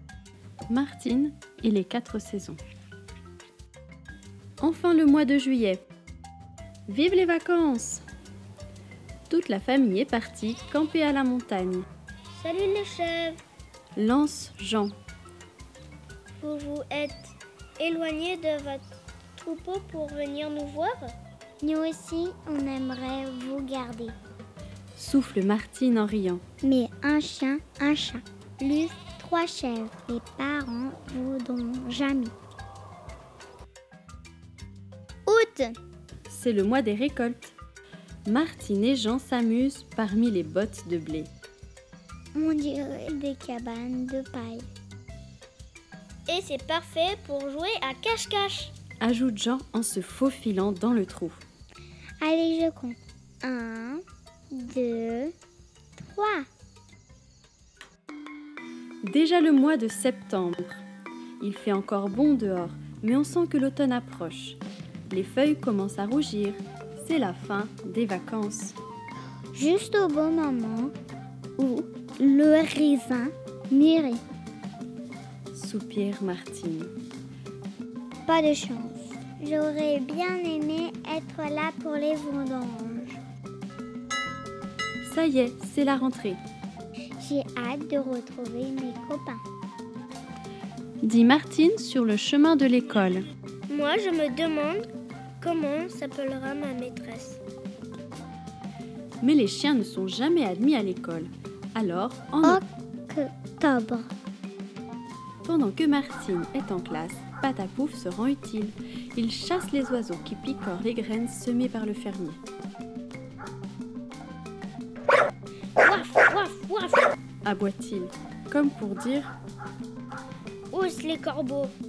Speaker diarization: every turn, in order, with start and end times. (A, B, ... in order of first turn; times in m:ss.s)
0:00.7-0:02.6 A
0:04.6-0:05.8 A
0:06.9-0:08.0 A
0:09.3-0:11.8 A
0:12.3-0:13.4 B
0:14.0-0:14.9 A
0:16.4-0:18.8 B
0:19.4-0:21.1 B
0:21.6-0:24.2 C
0:25.0-0:26.4 A
0:26.6-0:32.3 C
0:35.3-0:35.8 C
0:36.3-0:37.5 A
0:38.2-0:41.3 A
0:42.3-0:44.6 C
0:46.3-0:48.7 B
0:49.0-0:51.4 A
0:52.2-0:55.3 C
0:56.0-0:56.4 C
0:59.0-1:00.8 A
1:01.4-1:08.8 A
1:09.5-1:10.9 C
1:11.6-1:14.2 C
1:15.5-1:16.9 A
1:18.2-1:23.2 C
1:25.0-1:26.4 A
1:27.2-1:29.4 C
1:31.0-1:33.2 A
1:33.7-1:34.8 B
1:35.4-1:37.4 B
1:39.2-1:42.6 A
1:42.4-1:44.1 C
1:45.4-1:52.4 A
1:55.8-1:57.1 B
1:57.4-1:59.3 A
2:00.7-2:01.7 B